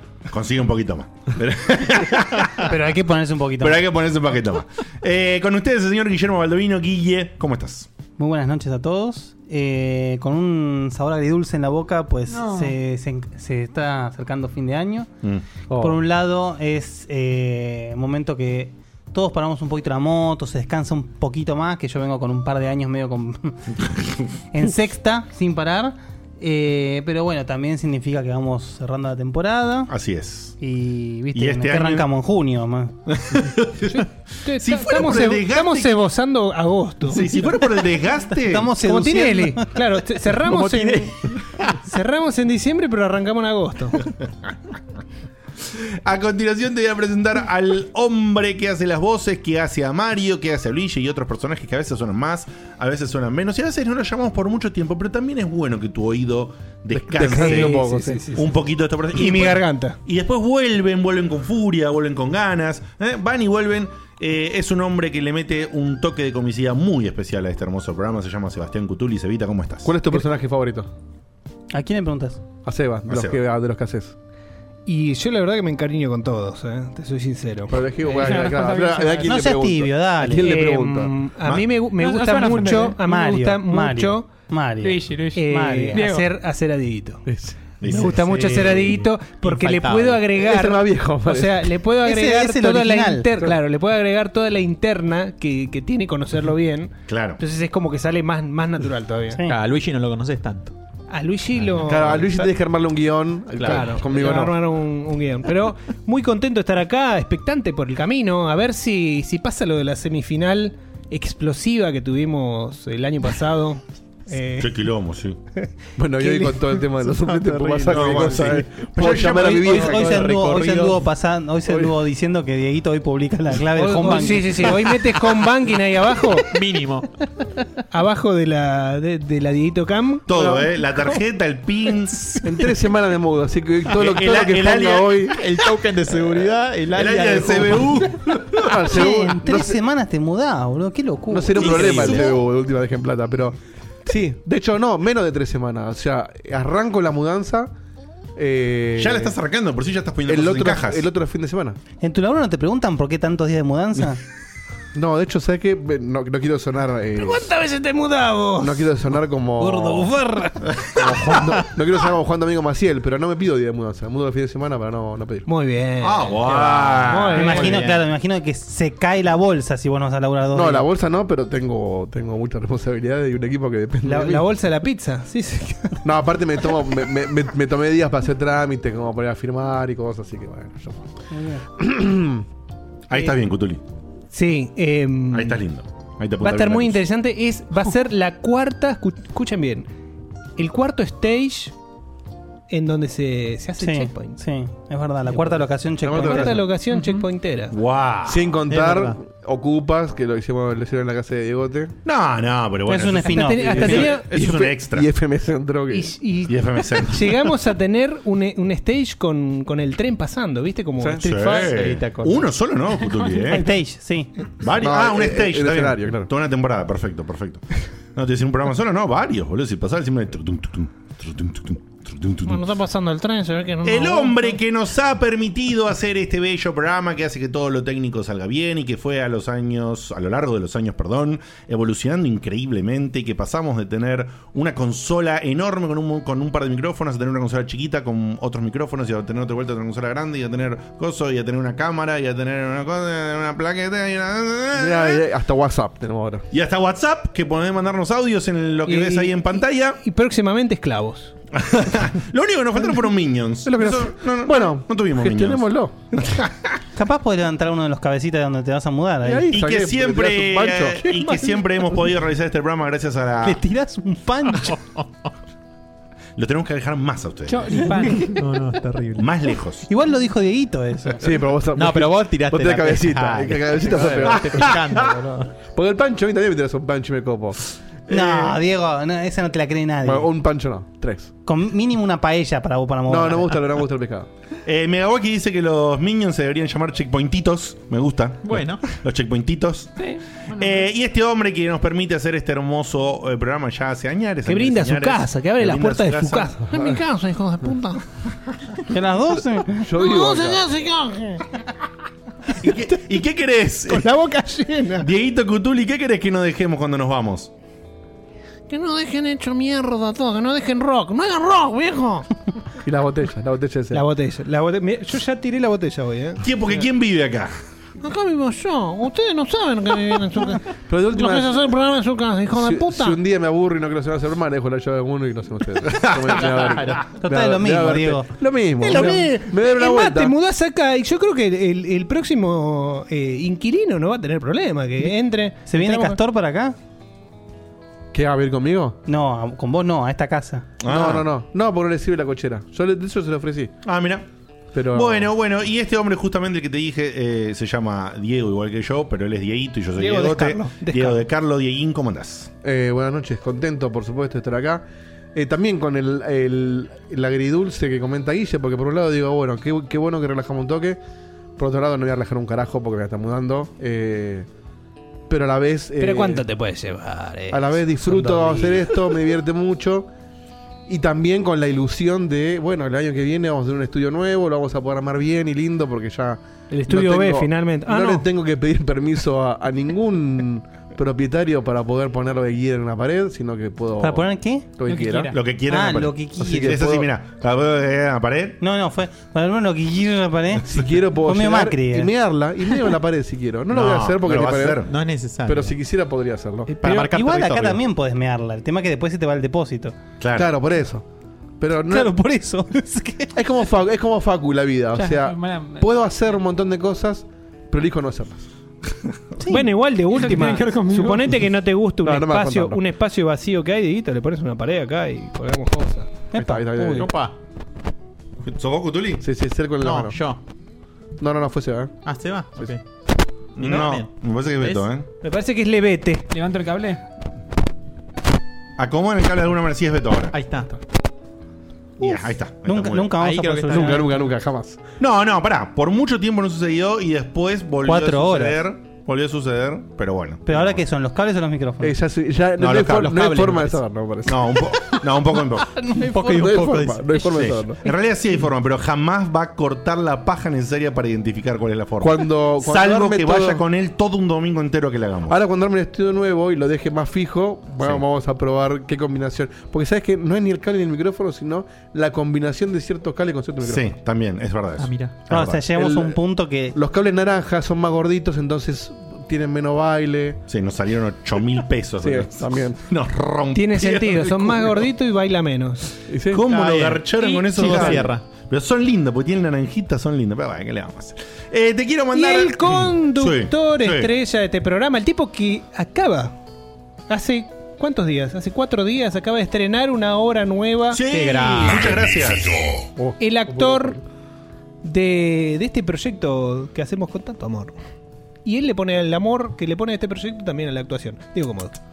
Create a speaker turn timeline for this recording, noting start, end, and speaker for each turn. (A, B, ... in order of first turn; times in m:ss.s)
0:00.3-0:02.7 A
0:02.6-0:03.8 B
0:03.6-0:07.9 A
0:08.2-0:15.1 B
0:12.3-0:12.8 C
0:15.7-0:16.0 D
0:15.8-0:23.6 B
0:24.5-0:29.9 B
0:29.9-0:30.6 A
0:30.6-0:33.0 B
0:31.3-0:32.1 A
0:33.1-0:34.1 A
0:34.4-0:37.2 E
0:34.6-0:35.9 A
0:37.1-0:38.7 A
0:38.4-0:39.8 B
0:38.8-0:41.2 E
0:40.5-0:41.1 F
0:41.8-0:44.0 E
0:46.0-1:10.0 A
0:56.9-0:58.3 D
0:57.2-0:58.5 E
0:59.1-1:00.0 E
1:09.8-1:10.9 D
1:11.7-1:12.4 B
1:12.6-1:14.1 D
1:13.1-1:13.4 A
1:14.9-1:17.8 E
1:17.7-1:21.1 D
1:18.0-1:19.4 C
1:19.2-1:20.7 B
1:20.4-1:24.3 E
1:21.9-1:23.1 C
1:23.0-1:26.1 B
1:24.8-1:26.2 C
1:25.3-1:27.2 E
1:27.2-1:27.6 D
1:27.8-1:28.4 A
1:27.8-1:39.4 E
1:28.3-1:30.2 F
1:30.4-1:31.7 D
1:32.0-1:33.3 B
1:37.1-1:37.4 A
1:39.4-1:40.7 F
1:41.1-1:42.4 E
1:41.6-1:42.3 F
1:41.8-1:44.5 D
1:43.6-1:43.9 F
1:43.6-1:54.7 E
1:54.6-1:55.4 A
1:56.0-2:00.3 D
1:56.2-1:56.6 E
1:57.2-2:01.0 F
1:57.9-1:59.9 A
1:59.2-2:04.9 B
2:01.7-2:02.0 D
2:03.8-2:06.4 E
2:06.4-2:07.1 F
2:07.9-2:10.6 E
2:10.3-2:12.4 A
2:12.4-2:15.4 D
2:14.0-2:15.2 A
2:15.3-2:18.1 F
2:16.9-2:18.8 A
2:18.6-2:19.8 D
2:18.8-2:22.2 B
2:21.3-2:27.7 D
2:21.6-2:22.3 A
2:21.7-2:22.0 F
2:28.4-2:29.3 D
2:29.0-2:31.0 A
2:30.3-2:31.8 D
2:32.0-2:34.2 B
2:34.9-2:37.5 D
2:37.2-2:38.8 E
2:38.6-2:40.1 D
2:39.6-2:40.6 E
2:41.0-2:45.5 D
2:45.5-2:48.0 E
2:46.0-2:47.7 A
2:47.3-2:50.8 B
2:50.5-2:54.4 D
2:54.0-2:56.0 E
2:56.0-3:01.0 D
3:01.3-3:01.6 B
3:01.8-3:02.4 D
3:03.1-3:03.8 A
3:04.3-3:05.6 E
3:05.3-3:07.0 A
3:06.4-3:09.9 E
3:10.6-3:11.7 E
3:12.7-3:14.4 E
3:13.8-3:16.7 B
3:16.0-3:16.6 D
3:16.1-3:17.7 E
3:16.9-3:17.2 C
3:17.7-3:18.4 A
3:18.2-3:21.9 D
3:18.7-3:19.2 F
3:22.0-3:25.1 A
3:22.9-3:24.1 B
3:23.2-3:24.3 E
3:23.6-3:26.1 D
3:25.9-3:32.0 E
3:26.5-3:27.3 A
3:31.0-3:31.3 D
3:31.2-3:33.7 A
3:31.7-3:32.4 F
3:33.5-3:34.3 B
3:34.6-3:42.6 A
3:34.8-3:36.3 D
3:42.4-3:44.6 G
3:43.8-4:05.2 A
4:04.7-4:06.4 D
4:06.5-4:10.0 A
4:08.8-4:11.3 E
4:11.6-4:15.7 A
4:13.6-4:16.1 D
4:16.2-4:16.5 A
4:17.0-4:19.6 B
4:19.2-4:21.4 D
4:19.5-4:23.6 A
4:23.4-4:24.7 B
4:24.5-4:25.1 F
4:26.4-4:27.8 A
4:27.5-4:28.4 C
4:28.2-4:29.3 F
4:29.2-4:29.9 A
4:29.9-4:31.2 B
4:31.2-4:34.8 D
4:31.7-4:35.5 F
4:35.7-4:37.6 D
4:38.1-4:40.3 B
4:38.1-4:38.6 A
4:40.0-4:41.3 D
4:41.4-4:43.6 B
4:43.1-4:44.3 D
4:44.6-4:50.0 A
4:48.4-4:48.8 F
4:50.0-4:50.8 C
4:50.6-4:56.5 A
4:54.4-4:56.6 E
4:56.7-4:58.0 G
4:58.9-4:59.8 B
4:59.8-5:00.7 D
5:00.0-5:01.4 G
5:02.6-5:04.1 A
5:03.9-5:05.0 E
5:05.0-5:07.5 A
5:08.7-5:12.3 G
5:12.8-5:14.0 D
5:13.9-5:16.4 E
5:16.4-5:17.5 A
5:18.0-5:20.6 G
5:20.9-5:21.6 D
5:21.1-5:23.2 G
5:22.5-5:30.3 D
5:26.4-5:27.1 F
5:27.2-5:28.3 B
5:28.8-5:36.2 E
5:35.6-5:36.7 B
5:38.1-5:39.0 D
5:39.0-5:40.7 B
5:40.8-5:41.3 A
5:40.8-5:43.7 D
5:43.8-5:44.2 A
5:44.7-5:45.3 D
5:44.9-5:52.5 A
5:50.0-5:51.2 E
5:52.6-6:01.0 D
6:01.6-6:04.5 D
6:05.3-6:06.4 D
6:06.0-6:08.9 E
6:07.5-6:10.1 D
6:10.9-6:25.3 D
6:16.7-6:18.2 E
6:24.0-6:24.8 B
6:24.8-6:25.4 C
6:25.3-6:28.6 A
6:25.7-6:26.8 B
6:26.4-6:27.1 D
6:28.6-6:32.1 B
6:30.6-6:34.9 D
6:33.7-6:34.9 A
6:34.9-6:35.7 F
6:35.4-6:36.7 D
6:36.7-6:37.8 F
6:36.8-6:40.0 B
6:40.2-6:40.5 A
6:40.3-6:41.0 D
6:41.6-6:42.1 D
6:41.9-6:43.3 B
6:43.3-6:48.5 D
6:44.9-6:46.4 C
6:49.4-6:49.7 B
6:49.4-6:56.2 E
6:50.1-6:51.3 C
6:52.0-6:52.8 D
6:56.3-6:57.1 B
6:56.4-6:57.1 D
6:56.8-6:57.3 F
6:58.4-6:59.2 A
6:59.2-7:00.2 D
6:59.8-7:00.4 F
7:01.2-7:01.9 D
7:02.0-7:02.8 F
7:03.6-7:04.9 F
7:03.6-7:05.0 A
7:05.2-7:06.3 E
7:06.3-7:07.0 C
7:08.8-7:10.3 A
7:10.3-7:10.8 F
7:12.0-7:13.1 A
7:12.0-7:14.1 B
7:13.2-7:14.2 F
7:13.7-7:14.8 D
7:15.0-7:20.8 A
7:17.8-7:18.6 B
7:20.4-7:22.0 B
7:21.8-7:24.6 D
7:22.6-7:23.2 A
7:22.9-7:23.8 F
7:24.2-7:25.7 A
7:25.9-7:27.4 F
7:26.2-7:27.8 D
7:27.3-7:35.4 A
7:32.0-7:33.6 D
7:35.3-7:43.9 D
7:43.6-7:45.6 A
7:44.8-7:45.2 F
7:45.3-7:46.8 B
7:45.7-7:46.2 D
7:46.7-7:50.4 D
7:50.5-7:54.9 A
7:52.0-7:52.8 D
7:53.5-7:55.9 E
7:56.1-7:56.4 D
7:56.3-8:04.1 A
7:56.5-7:58.2 F
8:02.1-8:06.3 E
8:07.1-8:12.0 E
8:10.9-8:12.7 A
8:13.0-8:14.0 D
8:13.2-8:14.0 E
8:14.8-8:17.8 E
8:18.4-8:21.8 E